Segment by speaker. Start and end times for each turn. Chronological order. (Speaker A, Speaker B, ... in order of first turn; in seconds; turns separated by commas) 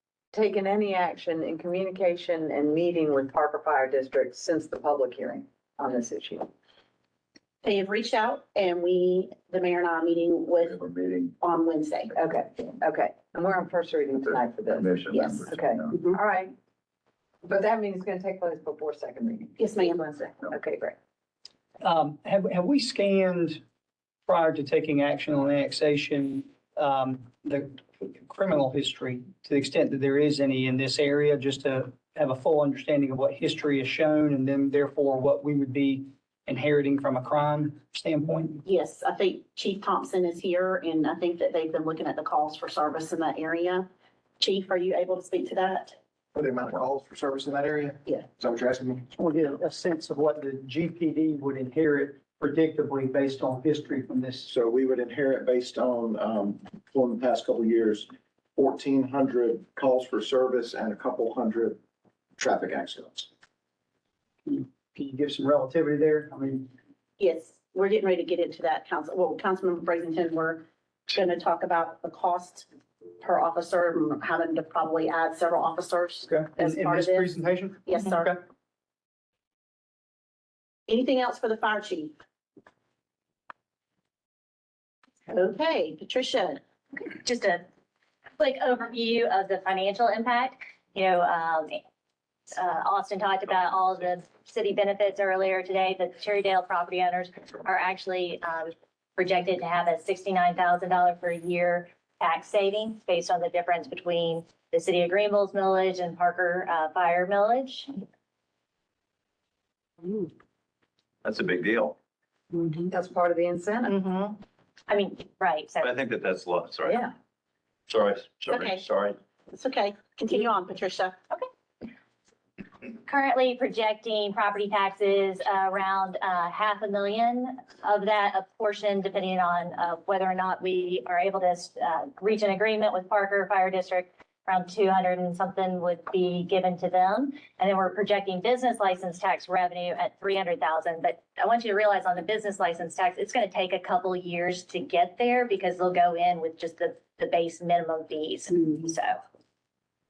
Speaker A: 0.3-6.5, Speaker B: 7.6-12.1, Speaker C: 10.8-11.3, Speaker A: 12.1-16.5, Speaker C: 14.8-15.5, Speaker A: 17.4-21.0, Speaker B: 19.6-20.0, Speaker D: 21.8-23.6, Speaker D: 24.3-38.6, Speaker B: 38.6-43.9, Speaker B: 44.4-46.0, Speaker E: 46.3-49.1, Speaker D: 49.1-54.5, Speaker E: 54.5-61.8, Speaker E: 62.4-63.3, Speaker D: 64.5-66.7, Speaker B: 67.2-72.7, Speaker B: 73.2-78.3, Speaker D: 76.3-78.4, Speaker B: 80.9-82.2, Speaker B: 85.3-86.6, Speaker F: 87.0-87.6, Speaker F: 88.4-91.8, Speaker F: 92.5-107.9, Speaker C: 111.2-112.0, Speaker A: 112.9-114.0, Speaker F: 113.9-116.0, Speaker C: 115.8-117.1, Speaker C: 117.9-119.2, Speaker B: 118.5-118.9, Speaker B: 119.5-121.2, Speaker F: 123.1-149.2